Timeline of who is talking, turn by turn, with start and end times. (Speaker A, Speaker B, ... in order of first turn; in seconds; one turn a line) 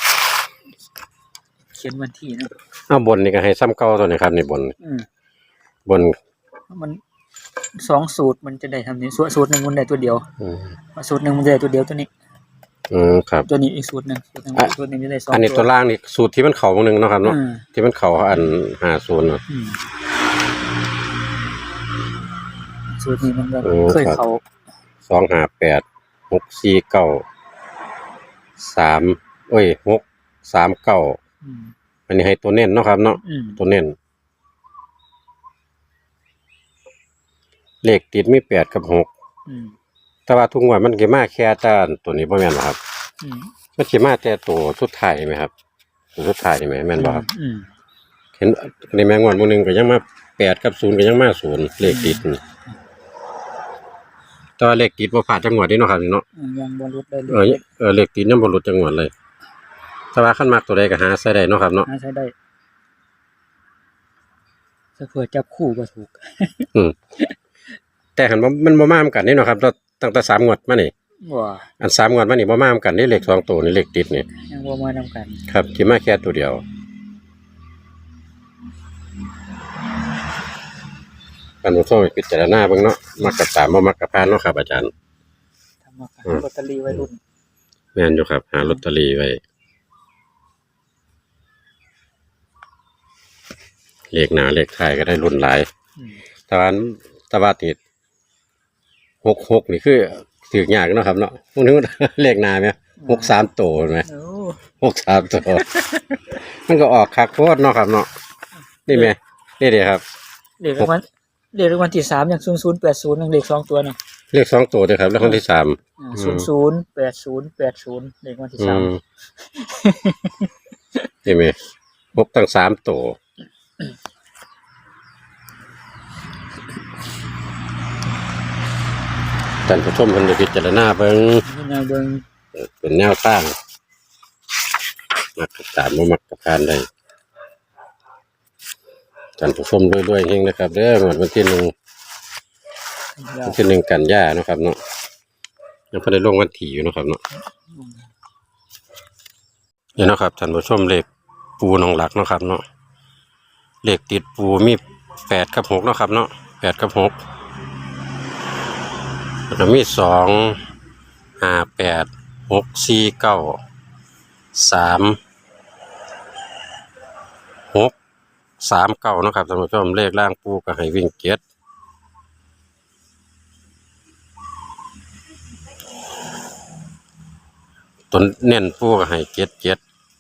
Speaker A: 1.8-2.5
Speaker B: 2.9-4.7
Speaker A: 4.8-5.1
Speaker B: 5.9-6.2
Speaker A: 6.7-7.0
Speaker A: 7.8-10.3
Speaker B: 10.4-10.7
Speaker A: 11.0-12.1
Speaker B: 12.9-13.5
Speaker A: 13.5-15.7
Speaker B: 15.3-19.4
Speaker A: 17.2-17.6
Speaker A: 19.5-19.8
Speaker A: 22.9-24.4
Speaker B: 23.6-24.2
Speaker B: 25.1-27.2
Speaker B: 28.6-31.2
Speaker A: 31.4-31.7
Speaker B: 32.1-34.0
Speaker A: 33.2-33.6
Speaker B: 37.8-39.1
Speaker A: 39.5-39.8
Speaker B: 40.3-42.8
Speaker A: 43.2-43.5
Speaker B: 43.8-45.5
Speaker B: 46.1-47.2
Speaker A: 47.0-47.7
Speaker B: 48.4-52.4
Speaker A: 51.8-52.2
Speaker B: 54.6-56.2
Speaker A: 56.4-57.6
Speaker B: 57.3-59.1
Speaker B: 60.1-61.9
Speaker A: 61.9-62.3
Speaker A: 65.0-66.7
Speaker B: 68.2-70.9
Speaker A: 71.2-71.7
Speaker B: 71.8-74.3
Speaker A: 74.5-75.4
Speaker B: 75.5-76.6
Speaker B: 81.6-84.9
Speaker A: 85.8-87.2
Speaker B: 88.0-89.4
Speaker B: 94.1-95.7
Speaker B: 96.5-97.8
Speaker B: 99.2-104.1
Speaker A: 103.0-103.3
Speaker A: 104.1-104.6
Speaker B: 104.7-105.7
Speaker A: 105.4-106.3
Speaker B: 106.3-108.1
Speaker B: 108.9-110.0
Speaker A: 110.6-114.0
Speaker B: 114.3-116.5
Speaker A: 116.0-118.9
Speaker B: 118.6-119.0
Speaker A: 119.5-120.5
Speaker B: 121.3-121.6
Speaker B: 122.2-123.2
Speaker B: 129.7-131.4
Speaker A: 131.4-132.3
Speaker B: 132.5-133.6
Speaker B: 135.4-136.8
Speaker B: 139.4-141.7
Speaker A: 143.2-143.6
Speaker B: 143.4-144.8
Speaker B: 145.9-147.2
Speaker A: 147.7-148.1
Speaker B: 150.0-151.1
Speaker B: 151.6-152.6
Speaker B: 153.8-157.2
Speaker B: 159.5-160.6
Speaker B: 161.4-163.6
Speaker B: 164.6-165.2
Speaker B: 168.6-171.4
Speaker B: 178.1-179.8